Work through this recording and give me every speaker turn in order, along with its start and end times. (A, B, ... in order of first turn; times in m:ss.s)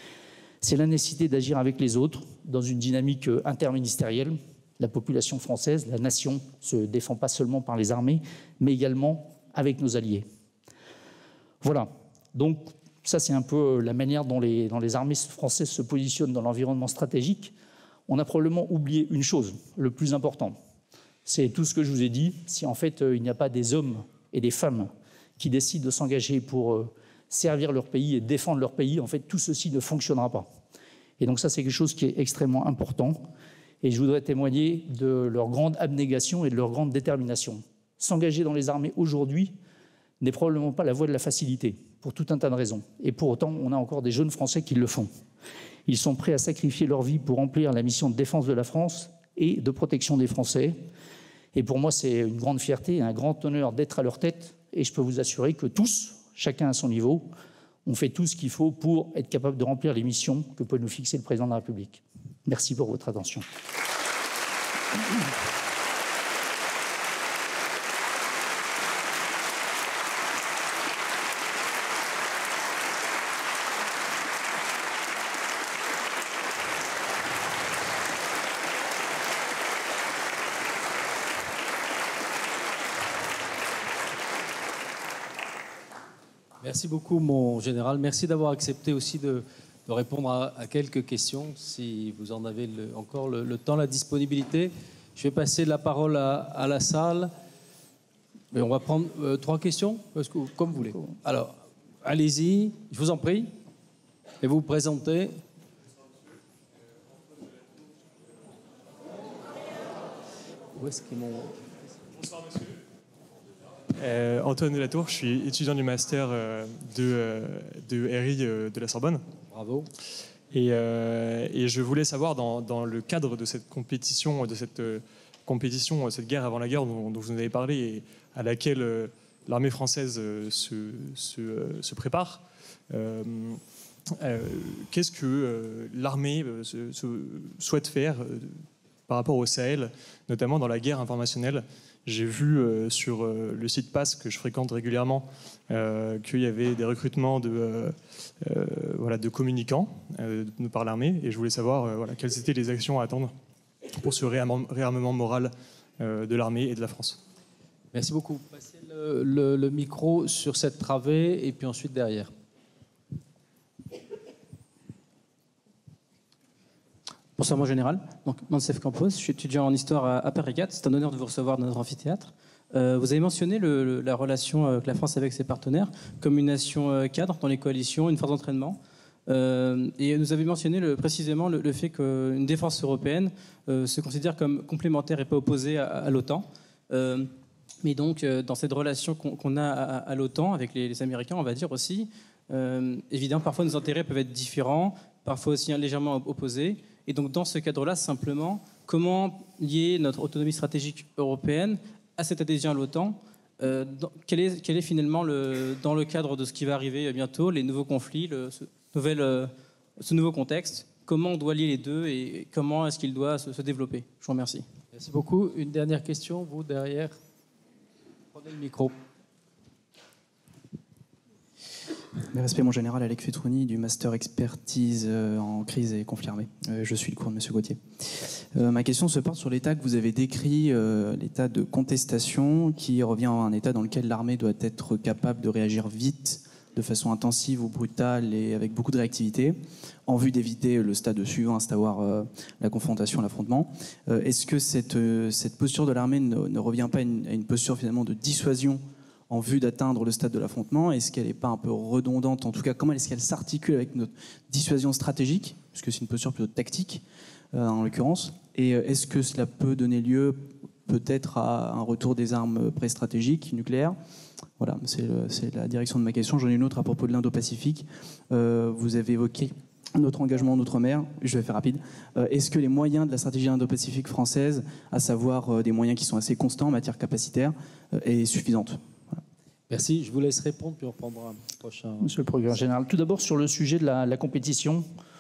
0:00.6-0:10.2 A
0:11.6-0:17.5 A
0:18.1-0:20.6 A
0:21.3-0:30.5 A
0:31.2-0:33.3 A
0:33.8-0:39.6 A
0:40.2-0:45.1 A
0:45.9-0:50.8 A
0:51.6-0:57.3 A
0:57.9-1:03.5 A
1:26.6-1:37.3 B
1:38.5-1:43.5 B
1:44.4-1:45.4 B
1:50.8-1:51.7 B
1:54.0-1:59.2 C
1:59.5-1:59.9 B
2:00.5-2:13.6 C
2:14.2-2:33.3 C
2:34.0-2:37.2 C
2:37.9-2:42.3 B
2:47.4-3:07.3 D
3:07.8-3:34.7 D
3:34.9-3:37.2 B
3:38.4-3:38.9 B
3:42.3-4:24.0 E
4:24.6-4:38.8 E
4:39.7-4:42.1 B
4:42.0-4:44.8 A